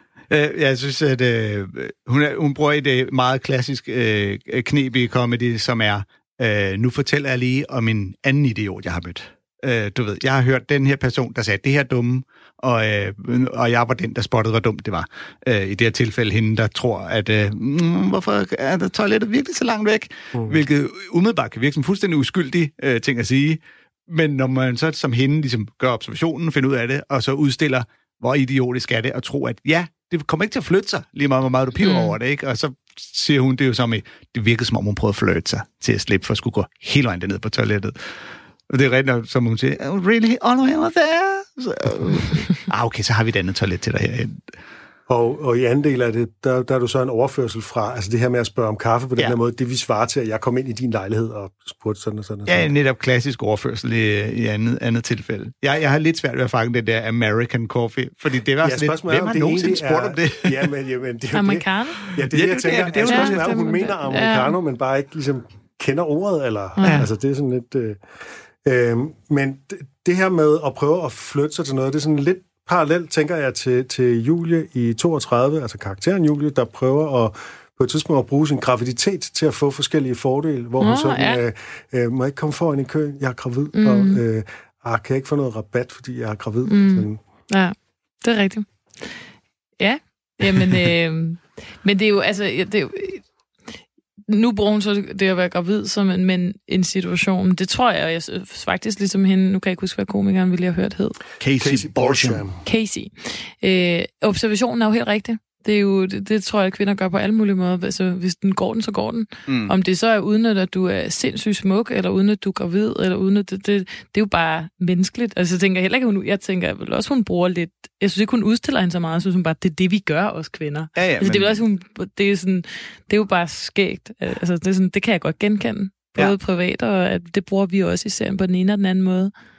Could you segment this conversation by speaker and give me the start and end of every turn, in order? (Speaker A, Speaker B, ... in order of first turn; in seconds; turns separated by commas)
Speaker A: 0.3-38.2, Speaker B: 20.3-20.6, Speaker C: 31.8-32.2, Speaker A: 38.7-44.5, Speaker B: 45.1-52.7, Speaker A: 52.5-60.7, Speaker B: 58.6-68.0, Speaker C: 61.3-62.0, Speaker A: 62.1-63.5, Speaker C: 63.0-64.6, Speaker C: 66.8-67.1, Speaker B: 68.6-87.2, Speaker C: 80.8-81.4, Speaker C: 83.8-84.2, Speaker C: 86.7-89.2, Speaker C: 89.8-93.2, Speaker C: 94.3-101.2, Speaker A: 101.4-102.5, Speaker B: 101.6-102.6, Speaker C: 102.6-129.3, Speaker A: 109.5-109.7, Speaker A: 121.0-121.6